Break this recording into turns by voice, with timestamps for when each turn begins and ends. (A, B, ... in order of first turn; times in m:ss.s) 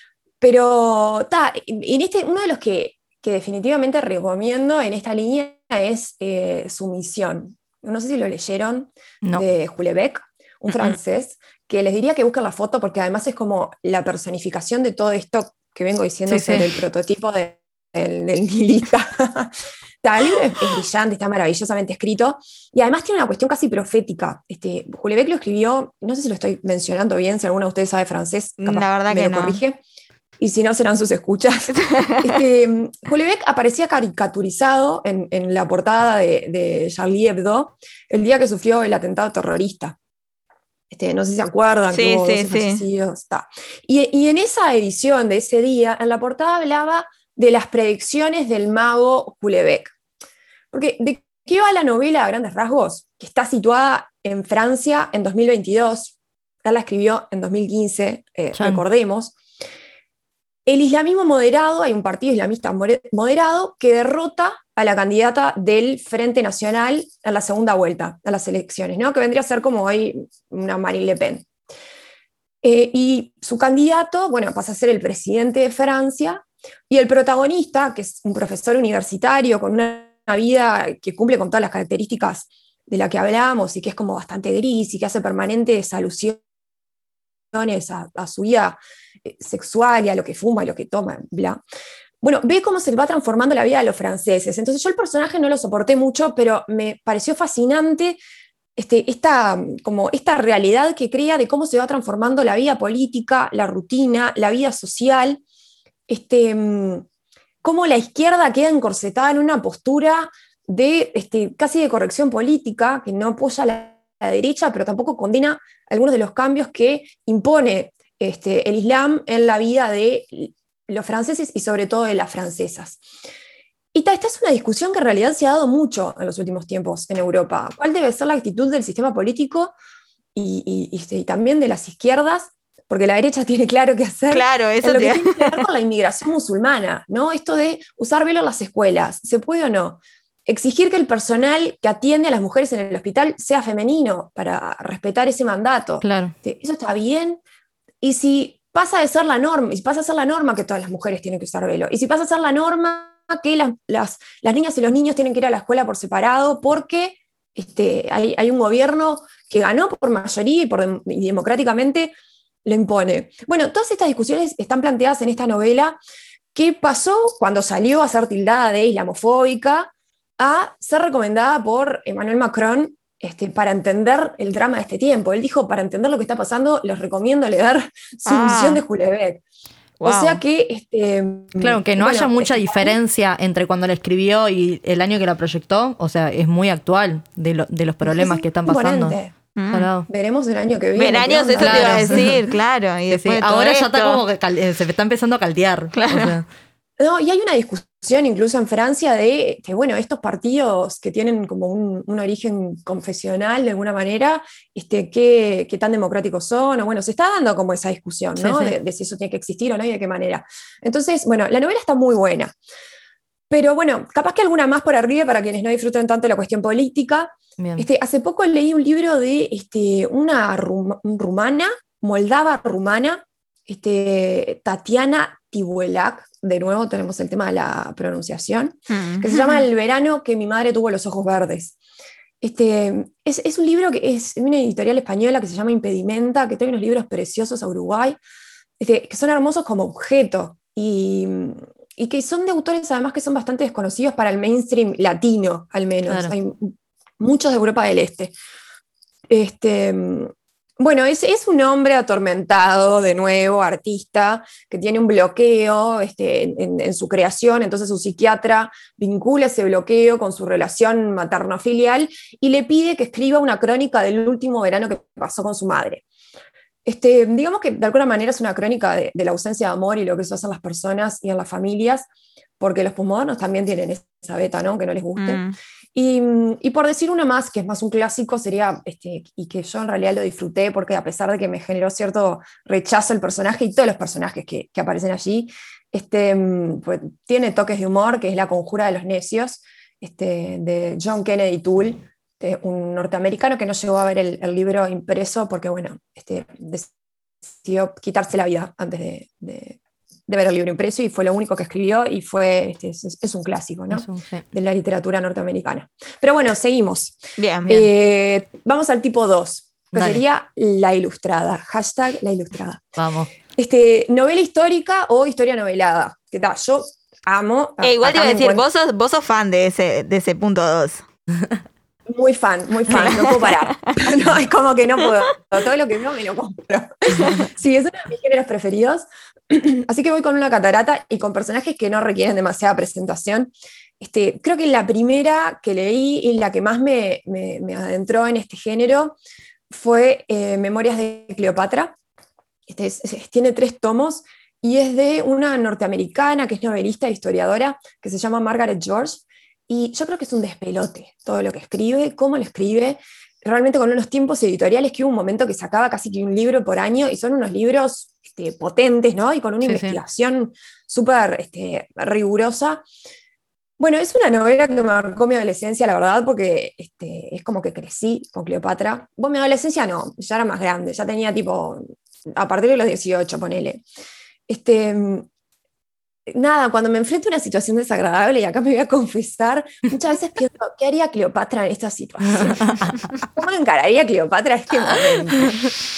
0:00.4-0:29.8 A
0:10.7-0:10.9 B
0:16.3-0:16.7 B
0:28.6-0:29.6 C
0:30.4-0:40.0 A
0:31.8-0:32.4 C
0:40.9-0:49.9 A
0:41.9-0:42.8 C
0:50.7-0:59.3 A
0:58.6-0:58.8 B
1:00.6-1:11.5 A
1:12.6-1:26.4 A
1:27.5-1:31.6 A
1:32.2-1:38.2 A
1:38.8-1:45.4 A
1:46.1-1:47.0 A
1:47.6-2:03.0 A
2:03.9-2:09.7 A
2:10.3-2:27.4 A
2:14.3-2:15.6 C
2:26.0-2:26.3 B
2:28.0-2:42.1 A
2:42.6-2:46.0 A
2:46.5-2:59.4 A
2:58.2-2:58.8 C
3:00.0-3:00.4 C
3:00.0-3:03.0 A
3:01.6-3:09.2 B
3:08.0-3:09.3 A
3:09.5-3:09.9 C
3:09.7-3:10.1 B
3:10.1-3:12.4 A
3:11.0-3:14.2 C
3:11.6-3:12.4 B
3:13.1-3:16.4 B
3:15.9-3:16.4 C
3:17.0-3:32.5 A
3:28.4-3:28.8 B
3:33.5-3:51.8 A
3:37.6-3:37.8 B
3:48.9-3:49.6 C
3:52.4-3:58.2 A
3:58.8-4:08.3 A
4:09.3-4:26.0 A
4:26.8-4:32.1 A
4:32.6-4:35.4 A
4:35.2-4:35.6 C
4:35.9-4:56.9 A
4:57.6-5:12.8 A
5:03.9-5:04.4 B
5:07.4-5:07.9 C
5:09.9-5:10.2 B
5:13.0-5:13.3 B
5:13.5-5:18.6 A
5:17.8-5:21.0 C
5:22.1-5:39.2 A
5:23.0-5:23.9 C
5:27.1-5:27.4 C
5:39.7-5:41.9 A
5:42.7-6:02.8 A
5:59.6-6:00.0 B
6:03.8-6:11.8 A
6:12.3-6:13.8 A
6:14.5-6:15.3 A
6:16.3-6:25.5 A
6:22.3-6:23.0 B